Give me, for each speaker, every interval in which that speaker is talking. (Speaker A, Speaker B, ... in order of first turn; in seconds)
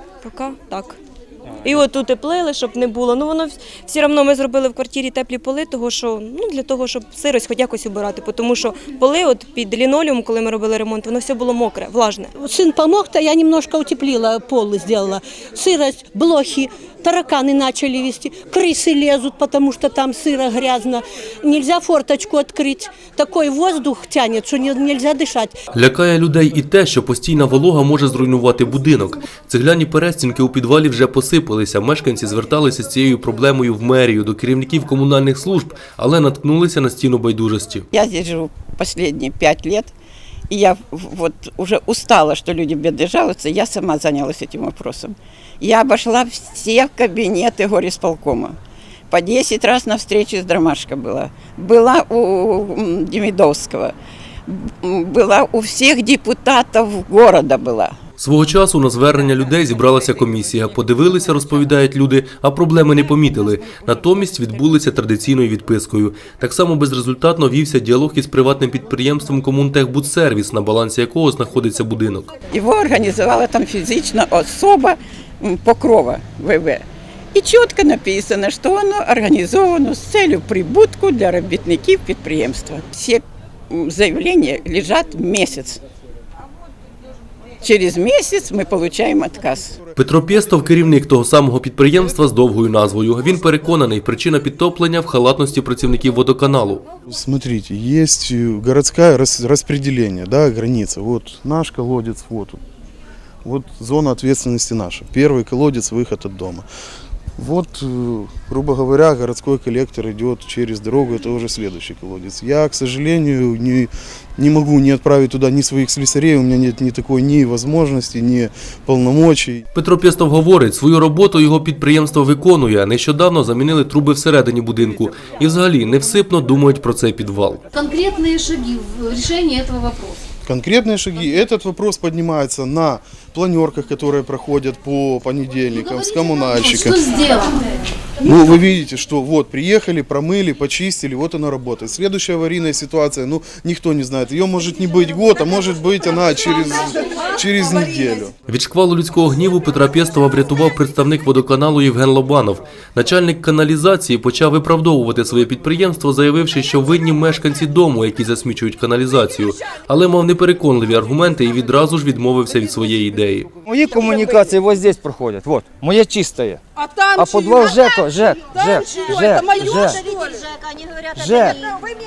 Speaker A: 0.2-1.0, 1.6-12.3
Speaker B: 12.4-25.6
Speaker C: 25.7-37.9, 58.2-72.3, 90.0-96.8, 119.8-127.6, 148.5-163.5
Speaker D: 37.9-39.9, 40.5-48.6, 49.1-53.9, 54.5-58.0, 72.5-85.8, 87.6-89.8
Speaker E: 97.1-102.6, 103.4-106.7, 107.4-119.6, 130.4-137.0, 138.2-148.3
Speaker F: 127.7-130.1
Speaker G: 163.6-166.6, 167.1-170.1, 171.1-171.6